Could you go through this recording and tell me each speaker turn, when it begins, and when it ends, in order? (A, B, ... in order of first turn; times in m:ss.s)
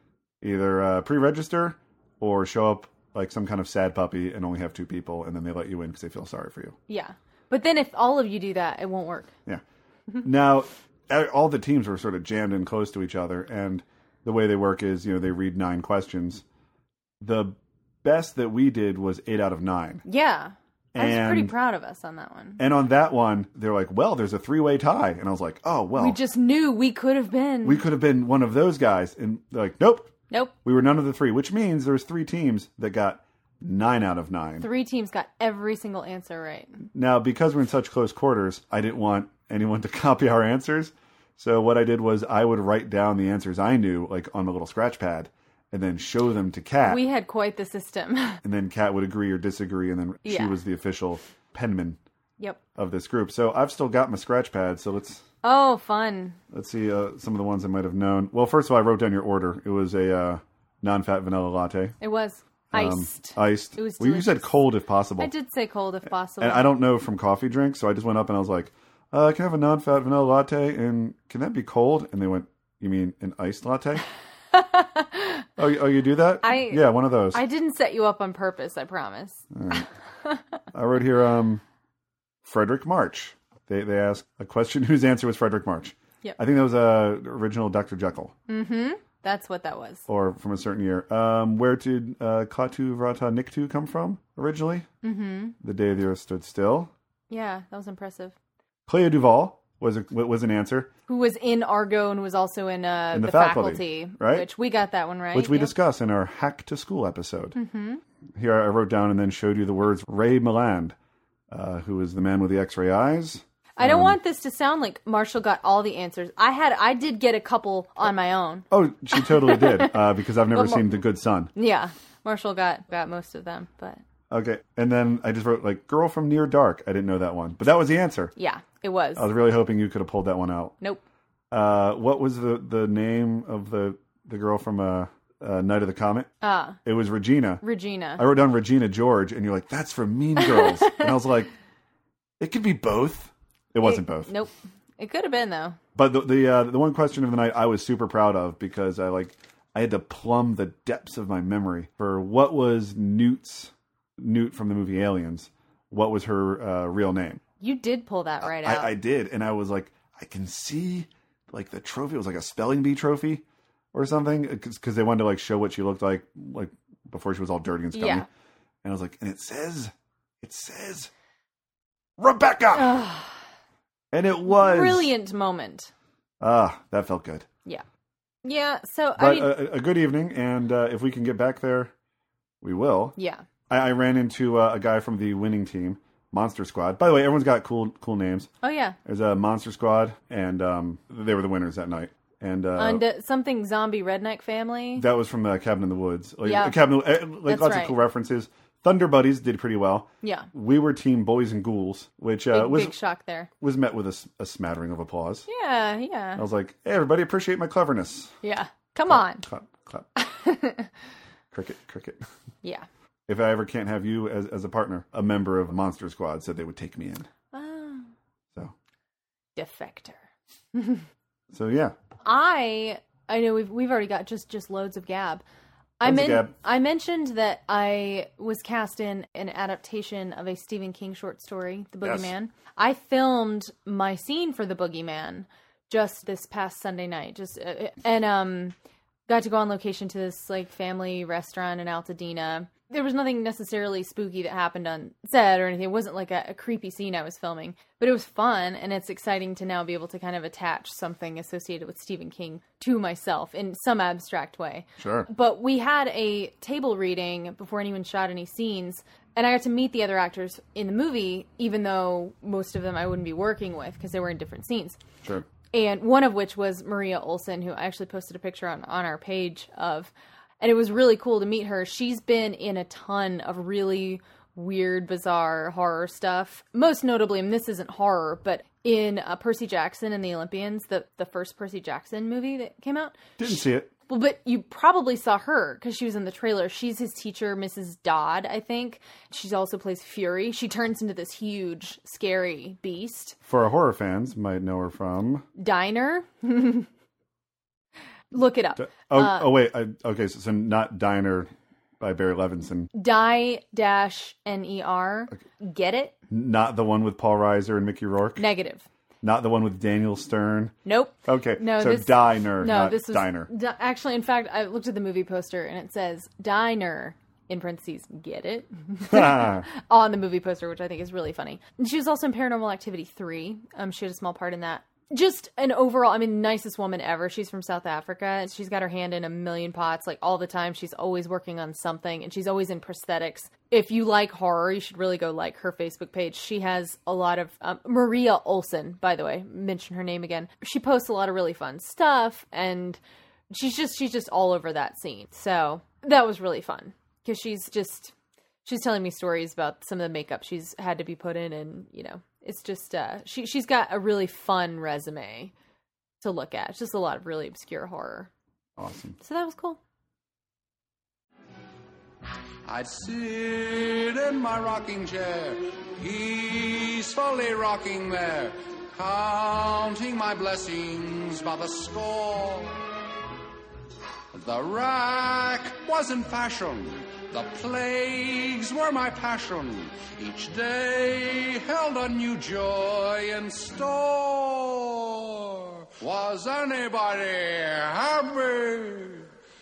0:00.4-0:06.8 A
0:06.9-0:09.3 B
0:10.2-0:16.4 A
0:17.2-0:20.0 A
0:20.0-0:22.6 B
0:20.9-0:21.5 A
0:22.6-0:26.2 A
0:26.0-0:27.8 B
0:27.6-0:30.1 A
0:30.6-0:34.7 A
0:34.6-0:36.8 B
0:36.9-0:47.0 A
0:46.8-0:48.4 B
0:48.4-0:52.0 A
0:50.2-0:50.6 B
0:52.7-0:55.2 A
0:55.4-0:56.4 B
0:56.5-1:02.0 A
1:02.0-1:04.5 B
1:02.7-1:05.3 A
1:05.2-1:06.7 B
1:06.4-1:14.0 A
1:14.5-1:15.4 B
1:15.6-1:17.4 A
1:16.4-1:20.4 B
1:19.5-1:19.9 A
1:20.7-1:21.6 A
1:22.4-1:28.3 A
1:28.5-1:30.0 B
1:30.1-1:34.9 A
1:35.0-1:35.6 B
1:35.6-1:36.9 A
1:37.3-1:38.3 B
1:38.9-1:40.9 A
1:41.1-1:45.7 B
1:43.1-1:44.5 A
1:45.3-1:47.6 A
1:47.5-1:48.0 B
1:48.3-1:51.0 A
1:51.5-1:54.2 A
1:53.8-2:00.0 B
1:58.7-2:01.5 A
2:00.5-2:00.9 B
2:01.5-2:04.0 B
2:04.3-2:08.3 A
2:08.4-2:09.3 B
2:09.2-2:10.7 A
2:11.5-2:16.3 A
2:16.4-2:16.8 B
2:16.8-2:17.6 A
2:17.6-2:18.2 B
2:18.2-2:21.5 A
2:20.4-2:21.1 B
2:22.4-2:24.3 A
2:23.8-2:25.8 B
2:25.9-2:37.4 A
2:37.6-2:39.0 B
2:38.4-2:48.3 A
2:47.9-2:48.2 B
2:48.8-2:51.1 A
2:52.2-2:53.0 A
2:52.7-2:53.4 B
2:54.1-2:55.1 A
2:54.4-2:55.9 B
2:56.4-2:57.5 A
2:58.4-2:59.6 B
2:59.2-3:01.9 A
3:02.6-3:03.1 A
3:03.2-3:03.4 B
3:03.7-3:08.5 A
3:08.6-3:09.0 B
3:09.0-3:13.0 A
3:12.8-3:15.0 B
3:15.0-3:23.0 A
3:16.4-3:16.8 B
3:17.4-3:17.9 B
3:20.2-3:20.5 B
3:22.5-3:23.5 B
3:23.6-3:25.4 A
3:25.5-3:26.4 B
3:26.4-3:28.4 A
3:28.4-3:29.4 B
3:29.1-3:30.1 A
3:30.2-3:30.9 B
3:31.5-3:32.2 A
3:33.3-3:37.3 A
3:37.5-3:38.1 B
3:39.6-3:40.2 B
3:40.7-3:41.0 B
3:41.5-3:41.9 A
3:42.2-3:45.4 B
3:46.0-3:58.7 B
3:46.0-3:46.5 A
3:52.0-3:52.3 A
3:59.3-4:25.0 B
4:15.0-4:15.3 A
4:25.7-4:43.6 B
4:43.4-4:43.9 A
4:44.1-4:53.4 B
4:53.4-4:55.5 A
4:55.6-4:56.9 B
4:58.3-4:59.5 B
4:58.8-5:02.9 A
5:02.9-5:06.2 B
5:06.3-5:08.4 A
5:08.4-5:08.9 B
5:09.2-5:13.5 A
5:10.8-5:43.0 B
5:19.1-5:19.6 A
5:43.5-5:48.1 B
5:48.6-5:55.5 B
5:56.2-5:58.3 B
5:58.8-5:59.2 A
5:59.2-5:59.8 B
6:02.6-6:12.8 C
6:14.3-6:29.3 C